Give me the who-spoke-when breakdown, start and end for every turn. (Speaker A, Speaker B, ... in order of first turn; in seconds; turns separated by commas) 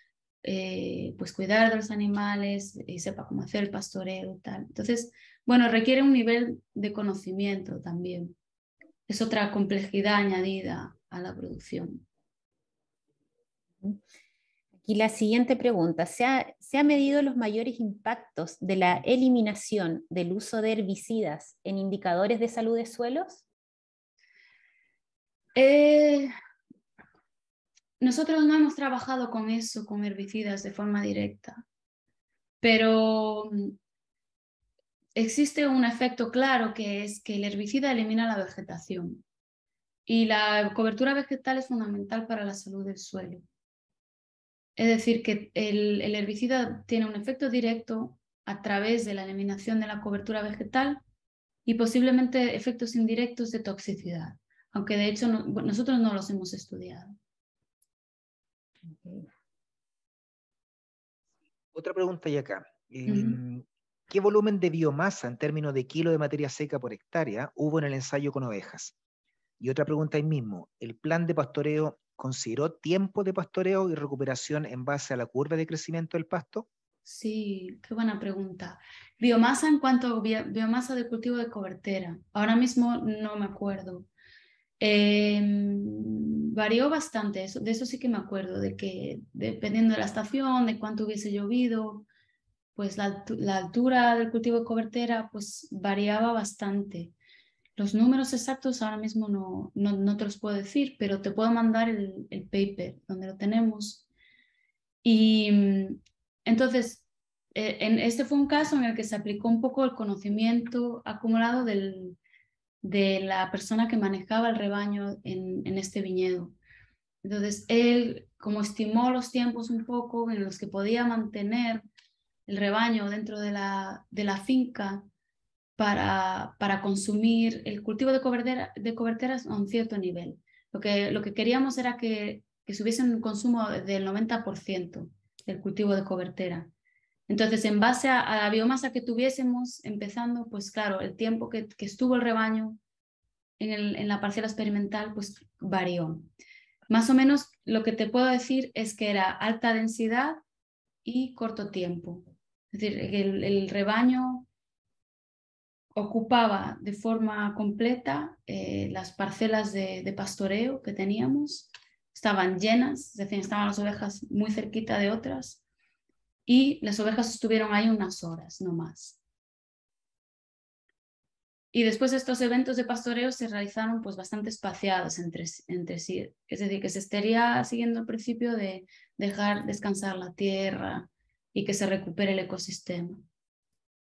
Speaker A: 0.4-8.3, Speaker A: 9.1-12.1, Speaker B: 14.8-23.4, Speaker A: 25.6-26.3, Speaker A: 28.0-31.6, Speaker A: 32.6-33.7, Speaker A: 35.1-39.2, Speaker A: 40.1-43.4, Speaker A: 44.8-51.0, Speaker A: 51.6-57.1, Speaker B: 58.9-59.3, Speaker C: 61.7-68.9, Speaker A: 63.0-63.4, Speaker C: 69.6-76.7, Speaker A: 77.0-84.1, Speaker A: 84.8-92.1, Speaker A: 92.8-97.1, Speaker A: 97.8-104.0, Speaker A: 105.0-107.0, Speaker A: 107.5-112.2, Speaker A: 112.8-116.5, Speaker A: 117.2-121.9, Speaker A: 122.5-125.1, Speaker A: 125.8-136.7, Speaker A: 137.3-142.8, Speaker A: 143.6-146.3, Speaker A: 146.9-150.4, Speaker A: 151.1-154.5, Speaker A: 155.9-165.6, Speaker A: 166.4-169.2, Speaker A: 171.7-183.2